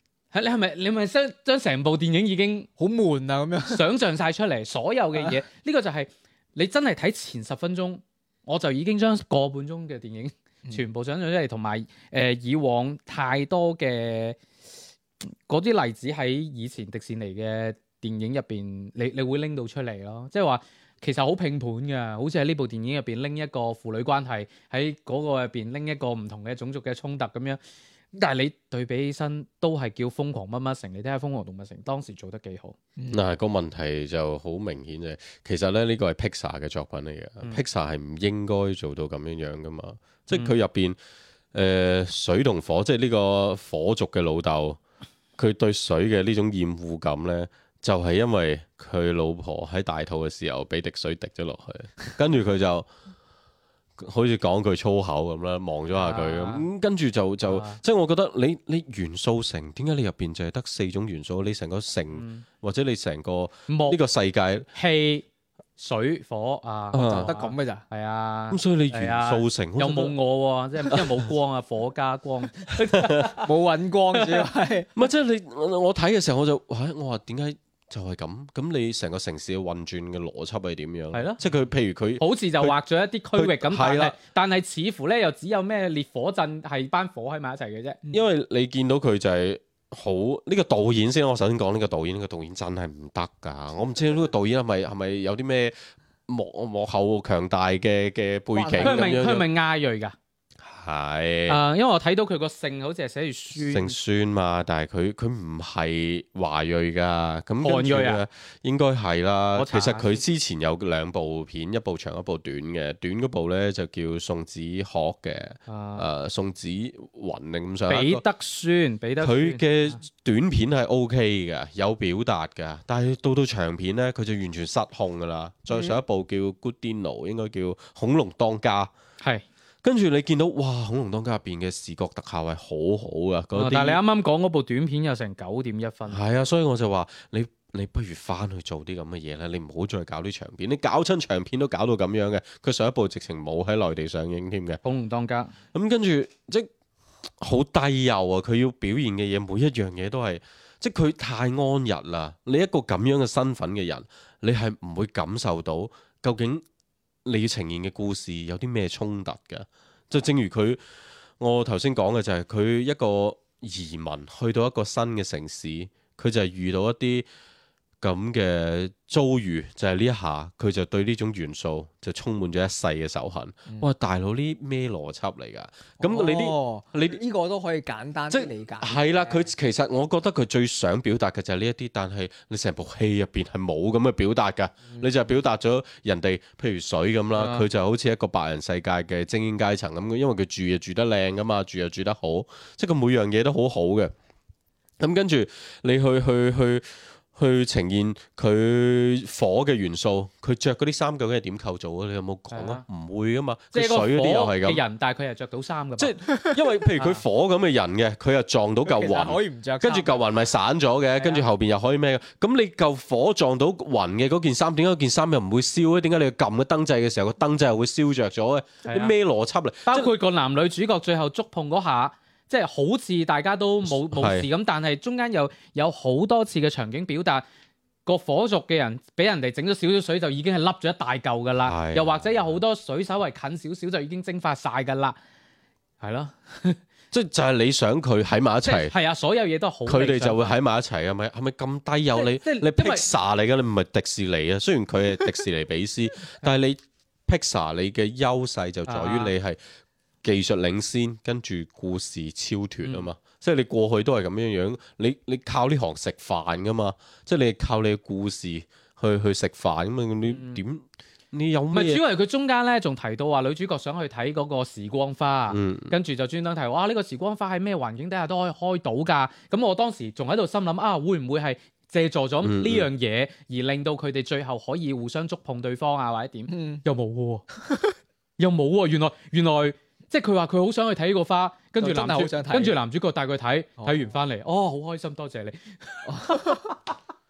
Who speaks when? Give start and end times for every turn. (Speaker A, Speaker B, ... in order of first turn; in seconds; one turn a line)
Speaker A: 0.3-2.7
Speaker B: 2.8-3.9
Speaker A: 3.6-14.4
Speaker A: 15.2-27.6
Speaker A: 28.1-32.8
Speaker B: 33.0-33.2
Speaker C: 33.1-41.0
Speaker C: 41.5-44.8
Speaker C: 45.4-52.9
Speaker C: 54.0-64.7
Speaker A: 56.0-56.7
Speaker A: 57.4-57.8
Speaker A: 62.1-62.5
Speaker A: 63.7-64.0
Speaker A: 64.7-65.2
Speaker A: 65.8-73.5
Speaker C: 66.9-67.3
Speaker B: 66.9-67.8
Speaker C: 68.5-70.1
Speaker C: 70.9-71.2
Speaker C: 72.9-73.3
Speaker B: 73.4-74.9
Speaker A: 74.2-74.5
Speaker C: 75.0-82.8
Speaker A: 81.1-81.4
Speaker A: 82.2-88.0
Speaker C: 83.3-84.2
Speaker C: 88.1-99.5
Speaker B: 98.6-99.2
Speaker A: 98.8-100.1
Speaker C: 100.6-101.6
Speaker A: 101.5-104.0
Speaker C: 103.5-118.2
Speaker A: 107.6-108.2
Speaker A: 109.5-110.2
Speaker A: 115.7-116.1
Speaker A: 117.9-120.0
Speaker C: 119.2-128.9
Speaker C: 129.8-134.0
Speaker A: 133.5-136.2
Speaker C: 136.1-144.8
Speaker A: 144.8-145.5
Speaker C: 145.7-146.7
Speaker C: 147.4-156.6
Speaker C: 157.2-160.8
Speaker C: 161.4-167.3
Speaker C: 168.0-177.2
Speaker B: 176.0-179.5
Speaker C: 178.3-194.1
Speaker B: 184.9-185.1
Speaker A: 187.4-187.6
Speaker C: 195.0-204.8
Speaker A: 202.5-202.8
Speaker A: 203.7-206.2
Speaker C: 206.0-220.1
Speaker B: 208.9-210.2
Speaker A: 211.2-211.4
Speaker A: 218.8-219.1
Speaker A: 219.9-227.4
Speaker C: 223.8-224.5
Speaker A: 228.1-235.2
Speaker C: 231.6-232.6
Speaker A: 236.0-236.8
Speaker C: 237.1-238.9
Speaker A: 238.6-240.5
Speaker C: 239.9-249.6
Speaker A: 242.1-243.1
Speaker A: 248.9-249.3
Speaker C: 250.2-262.0
Speaker A: 252.8-253.1
Speaker A: 260.3-260.6
Speaker A: 261.7-277.4
Speaker C: 265.5-266.0
Speaker C: 272.4-272.9
Speaker B: 276.5-276.8
Speaker B: 277.6-277.9
Speaker A: 278.4-286.8
Speaker B: 281.8-282.8
Speaker B: 283.8-284.1
Speaker B: 286.1-286.7